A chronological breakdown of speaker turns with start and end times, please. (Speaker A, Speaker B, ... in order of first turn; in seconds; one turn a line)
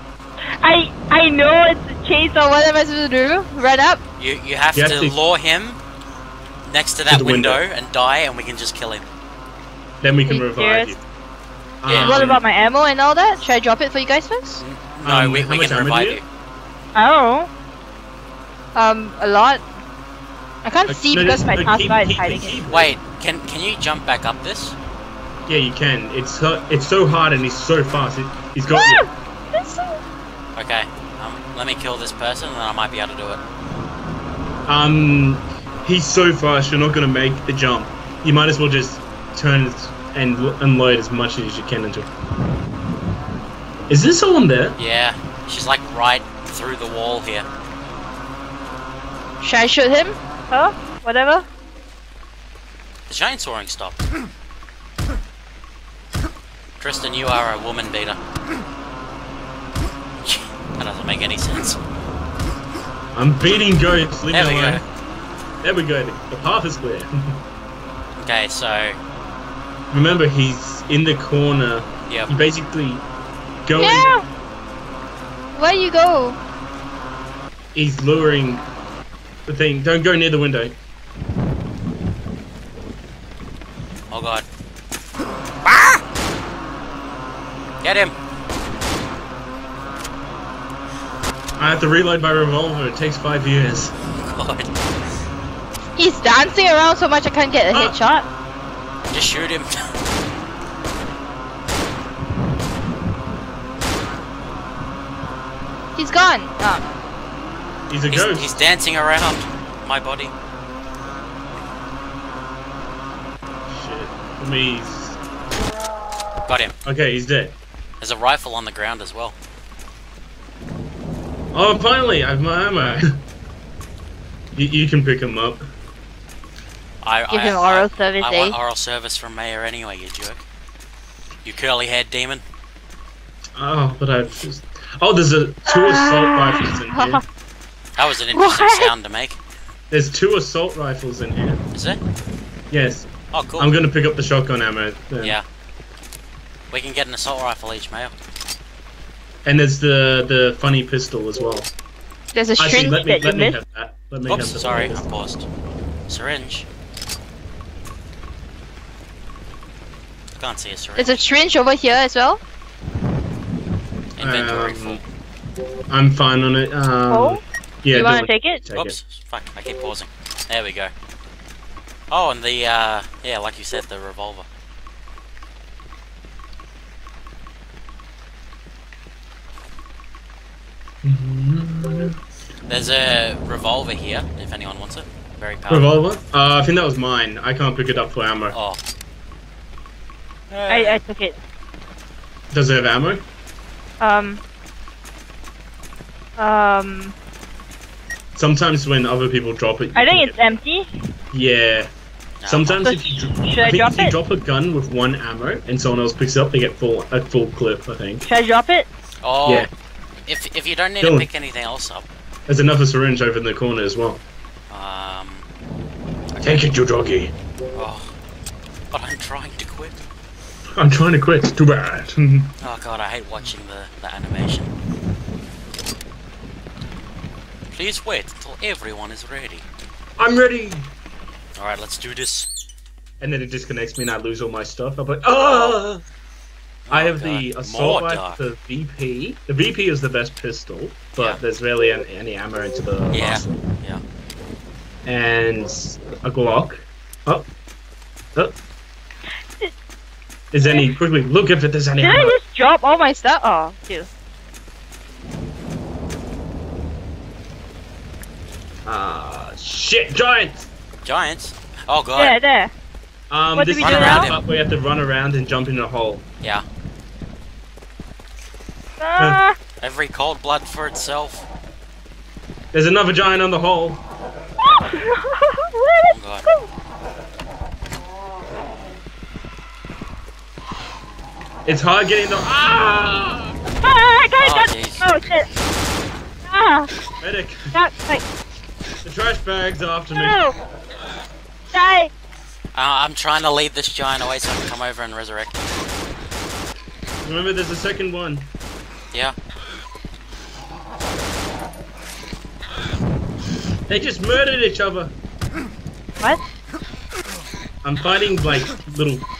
Speaker A: 0.5-4.0
Speaker B: 4.2-5.8
Speaker C: 4.7-5.1
Speaker B: 6.6-9.1
Speaker C: 7.1-7.6
Speaker C: 10.0-11.0
Speaker A: 10.3-11.0
Speaker C: 11.8-12.4
Speaker B: 11.8-12.3
Speaker A: 11.9-14.6
Speaker B: 14.6-16.2
Speaker C: 15.0-16.2
Speaker A: 16.9-17.5
Speaker A: 18.7-19.6
Speaker A: 20.6-22.5
Speaker C: 20.9-22.9
Speaker B: 22.7-24.8
Speaker C: 25.5-29.1
Speaker A: 28.7-30.0
Speaker B: 30.6-33.4
Speaker C: 34.6-42.1
Speaker C: 43.9-44.8
Speaker B: 44.8-47.5
Speaker A: 49.4-51.5
Speaker B: 53.1-54.0
Speaker B: 56.8-58.2
Speaker B: 60.2-61.8
Speaker C: 63.1-64.8
Speaker B: 64.3-64.8
Speaker C: 65.6-67.4
Speaker B: 68.2-69.0
Speaker C: 69.9-73.0
Speaker C: 73.6-74.1
Speaker A: 73.8-74.2
Speaker A: 75.5-76.4
Speaker C: 77.7-78.6
Speaker C: 79.5-80.8
Speaker B: 84.1-84.4
Speaker B: 85.6-86.0
Speaker B: 87.8-88.1
Speaker C: 91.6-93.9
Speaker B: 94.0-94.8
Speaker A: 96.0-98.3
Speaker C: 97.7-98.0
Speaker B: 99.1-99.9
Speaker A: 106.0-106.8
Speaker C: 107.9-108.5
Speaker B: 108.1-110.3
Speaker C: 113.7-115.2
Speaker B: 116.5-116.7
Speaker C: 116.8-117.6
Speaker B: 118.0-119.4
Speaker C: 121.5-123.2
Speaker C: 124.5-125.6
Speaker B: 127.0-130.4
Speaker A: 127.3-128.6
Speaker B: 131.4-132.4
Speaker C: 133.6-137.2
Speaker A: 135.7-137.2
Speaker B: 137.9-139.4
Speaker A: 138.3-138.9
Speaker C: 139.9-141.6
Speaker B: 141.7-142.0
Speaker C: 142.7-145.4
Speaker B: 143.3-143.7
Speaker B: 146.7-148.1
Speaker C: 149.4-151.7
Speaker A: 152.3-153.6
Speaker C: 152.6-155.1
Speaker B: 154.3-155.4
Speaker B: 156.1-156.7
Speaker B: 160.4-161.1
Speaker A: 161.0-162.4
Speaker B: 164.2-165.0
Speaker C: 164.2-165.0
Speaker C: 165.9-168.9
Speaker A: 167.1-168.6
Speaker B: 168.7-170.9
Speaker B: 172.1-174.5
Speaker C: 181.0-182.2
Speaker B: 182.7-185.9
Speaker C: 185.7-188.6
Speaker B: 188.5-188.8
Speaker B: 190.5-191.0
Speaker A: 190.7-191.4
Speaker C: 192.5-193.2
Speaker A: 194.0-194.4
Speaker A: 196.4-197.1
Speaker C: 198.3-200.4
Speaker A: 199.9-200.9
Speaker C: 201.3-201.9
Speaker B: 202.4-202.9
Speaker C: 202.4-208.3
Speaker A: 202.8-204.2
Speaker A: 208.3-208.9
Speaker B: 209.2-209.7
Speaker B: 210.3-212.1
Speaker C: 211.0-211.3
Speaker C: 212.5-214.2
Speaker B: 214.7-215.5
Speaker B: 216.3-216.7
Speaker C: 216.4-217.3
Speaker B: 217.7-218.1
Speaker B: 218.9-219.9
Speaker C: 220.8-222.5
Speaker B: 222.6-224.7
Speaker B: 227.7-229.7
Speaker C: 230.2-230.9
Speaker B: 231.6-232.5
Speaker C: 233.2-236.0
Speaker B: 236.9-238.4
Speaker C: 236.9-243.6
Speaker B: 243.1-244.0
Speaker C: 245.1-247.5
Speaker C: 250.5-252.4
Speaker A: 250.6-250.9
Speaker A: 252.0-254.1
Speaker C: 258.9-260.7
Speaker B: 261.0-262.3
Speaker A: 262.1-262.7
Speaker C: 263.3-266.2
Speaker A: 263.6-264.3
Speaker B: 263.8-264.4
Speaker A: 269.0-269.6
Speaker B: 269.8-271.4
Speaker C: 272.7-274.0
Speaker A: 274.6-276.6
Speaker B: 276.1-276.5
Speaker C: 281.6-283.6
Speaker A: 283.8-285.5
Speaker B: 284.4-285.1
Speaker A: 286.5-286.9
Speaker C: 287.2-287.8
Speaker A: 287.7-288.2
Speaker C: 289.0-290.4
Speaker A: 290.1-290.6
Speaker A: 291.7-292.1
Speaker B: 292.7-295.7
Speaker C: 297.2-298.5
Speaker C: 303.9-305.1
Speaker C: 307.8-309.3